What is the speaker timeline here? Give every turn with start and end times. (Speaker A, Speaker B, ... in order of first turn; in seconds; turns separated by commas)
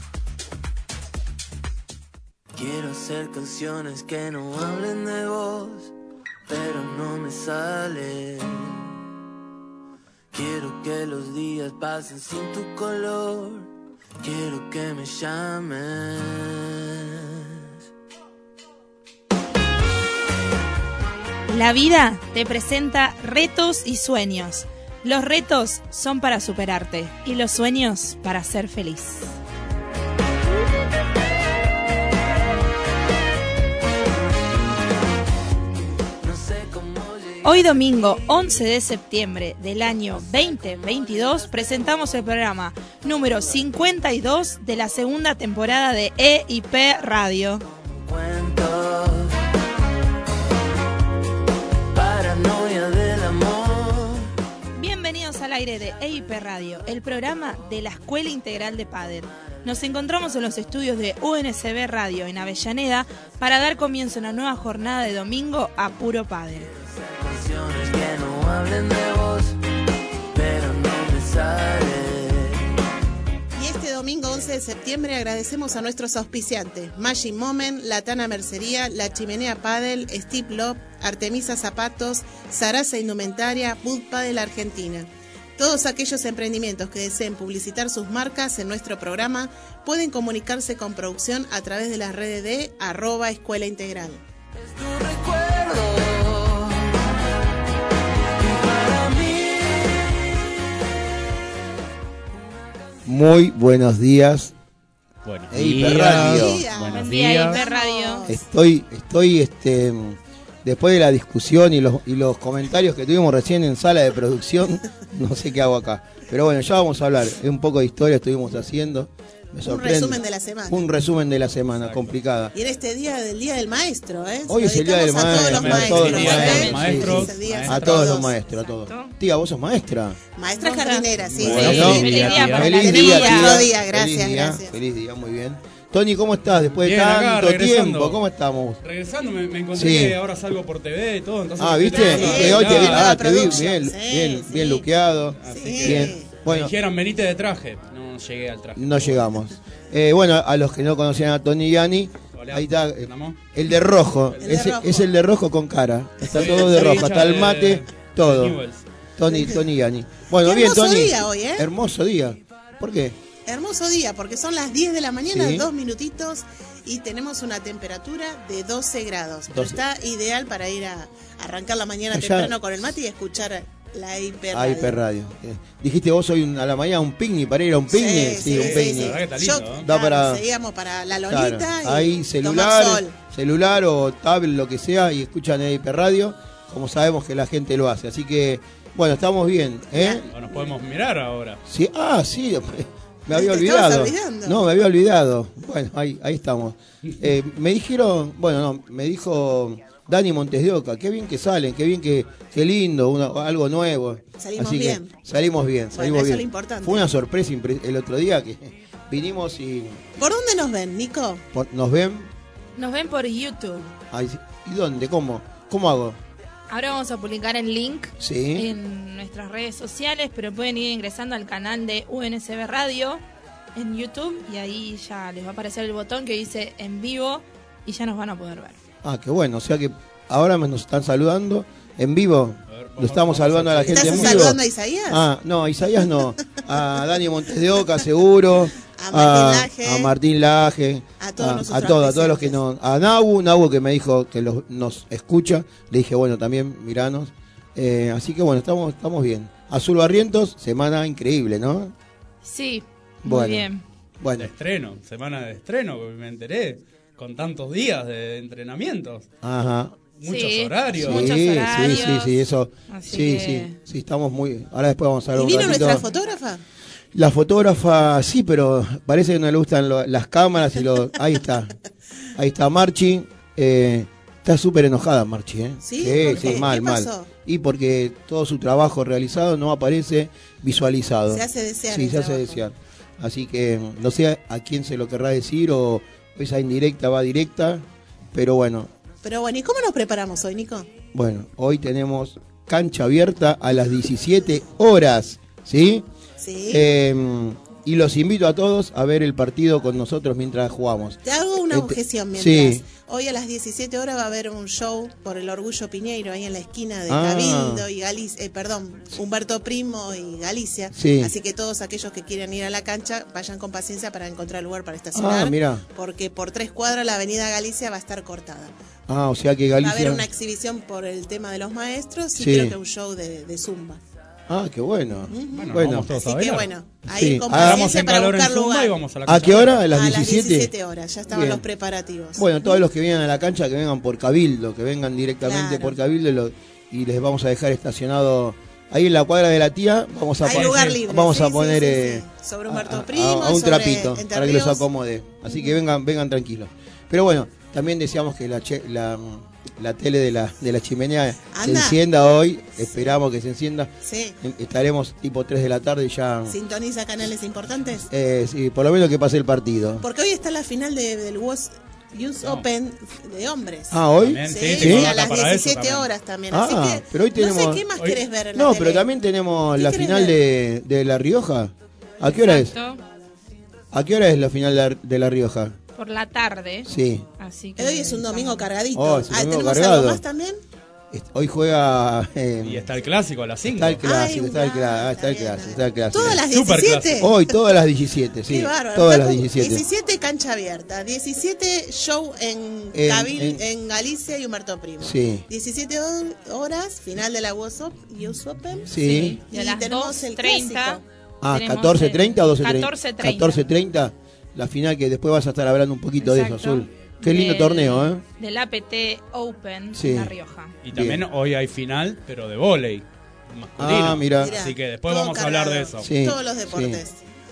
Speaker A: 2.5-5.9, Speaker A: 6.5-8.8, Speaker A: 10.3-13.7, Speaker A: 14.2-17.4, Speaker B: 21.5-29.3, Speaker A: 36.2-38.5, Speaker B: 37.4-47.6, Speaker A: 40.5-41.5, Speaker A: 48.0-49.4, Speaker A: 51.9-54.2, Speaker B: 54.8-66.7, Speaker A: 66.9-69.5, Speaker A: 70.3-72.6, Speaker C: 73.6-94.2, Speaker A: 94.6-97.1, Speaker A: 98.3-100.5, Speaker D: 103.0-104.5, Speaker E: 105.2-107.6, Speaker D: 105.5-106.7, Speaker C: 105.8-108.4, Speaker B: 106.9-108.2, Speaker D: 108.3-122.5, Speaker C: 119.6-120.8, Speaker E: 121.8-122.2, Speaker C: 122.5-128.3, Speaker D: 124.5-130.2, Speaker E: 125.2-128.1, Speaker B: 126.2-126.8, Speaker B: 128.8-129.1, Speaker C: 130.3-134.7, Speaker B: 130.6-133.6, Speaker E: 131.3-132.8, Speaker D: 131.3-138.8, Speaker E: 136.8-138.2, Speaker E: 138.8-143.5, Speaker D: 139.7-140.2, Speaker D: 141.6-146.7, Speaker C: 141.9-144.8, Speaker E: 145.4-149.2, Speaker C: 145.5-146.3, Speaker D: 148.8-158.6, Speaker E: 152.3-153.4, Speaker E: 154.1-154.4, Speaker C: 154.4-155.1, Speaker C: 156.3-156.7, Speaker E: 156.3-158.8, Speaker D: 159.2-163.2, Speaker C: 159.3-159.6, Speaker C: 160.4-161.7, Speaker C: 163.4-175.0, Speaker D: 165.3-165.7, Speaker D: 169.5-169.8, Speaker D: 172.1-172.5, Speaker D: 174.5-179.2, Speaker C: 177.9-183.1, Speaker E: 178.5-179.9, Speaker D: 179.8-180.4, Speaker D: 181.3-190.3, Speaker C: 189.9-190.2, Speaker E: 190.3-191.6, Speaker D: 191.7-210.2, Speaker C: 193.3-194.6, Speaker C: 204.4-205.1, Speaker C: 205.9-207.0, Speaker C: 210.2-211.4, Speaker D: 211.5-212.3, Speaker B: 212.8-213.9, Speaker D: 214.1-216.2, Speaker B: 216.7-223.2, Speaker D: 218.2-218.7, Speaker B: 223.7-228.8, Speaker D: 229.0-251.9, Speaker E: 232.7-234.5, Speaker C: 233.9-235.2, Speaker C: 238.9-240.1, Speaker C: 241.2-242.6, Speaker B: 252.4-253.8, Speaker D: 253.2-253.7, Speaker D: 254.2-254.5, Speaker E: 254.4-259.3, Speaker D: 259.4-259.9, Speaker E: 260.1-261.4, Speaker B: 260.2-262.4, Speaker D: 260.9-266.1, Speaker B: 262.9-263.8, Speaker C: 265.3-266.6, Speaker D: 267.1-271.7, Speaker D: 272.3-288.9, Speaker C: 275.8-277.3, Speaker C: 281.3-282.6, Speaker C: 289.2-290.9, Speaker D: 291.1-296.1, Speaker C: 296.4-296.8, Speaker D: 296.7-302.8, Speaker C: 301.2-318.7, Speaker D: 307.1-307.9, Speaker D: 310.9-311.3, Speaker D: 315.1-315.8, Speaker D: 319.1-320.3, Speaker C: 319.8-324.0, Speaker D: 322.3-322.7, Speaker D: 324.5-326.1, Speaker C: 325.2-328.9, Speaker E: 325.5-326.7, Speaker D: 327.1-327.9, Speaker E: 327.5-329.8, Speaker D: 329.2-330.7, Speaker C: 329.9-332.8, Speaker D: 331.3-331.6, Speaker D: 332.4-356.6, Speaker C: 335.4-335.9, Speaker C: 340.4-344.8, Speaker C: 351.5-353.1, Speaker C: 354.0-354.3, Speaker C: 356.5-358.1, Speaker D: 358.1-360.1, Speaker C: 360.0-369.0, Speaker D: 363.9-365.1, Speaker E: 364.2-366.1, Speaker D: 366.5-367.8, Speaker D: 368.5-372.7, Speaker C: 369.7-370.3, Speaker B: 372.4-373.0, Speaker D: 373.9-375.8, Speaker B: 375.9-378.7, Speaker D: 376.9-377.2, Speaker C: 377.8-380.6, Speaker D: 378.9-380.2, Speaker D: 381.1-382.9, Speaker E: 382.6-384.0, Speaker D: 383.6-386.4, Speaker C: 384.0-387.5, Speaker E: 386.1-387.3, Speaker D: 387.2-389.8, Speaker C: 388.5-401.0, Speaker D: 392.9-393.6, Speaker D: 395.0-395.4, Speaker D: 398.9-399.4, Speaker B: 399.0-403.6, Speaker D: 401.4-408.2, Speaker B: 406.2-410.7, Speaker D: 409.9-410.3, Speaker E: 410.8-416.1, Speaker D: 410.9-411.2, Speaker D: 413.8-414.6, Speaker C: 414.4-417.2, Speaker D: 416.0-417.0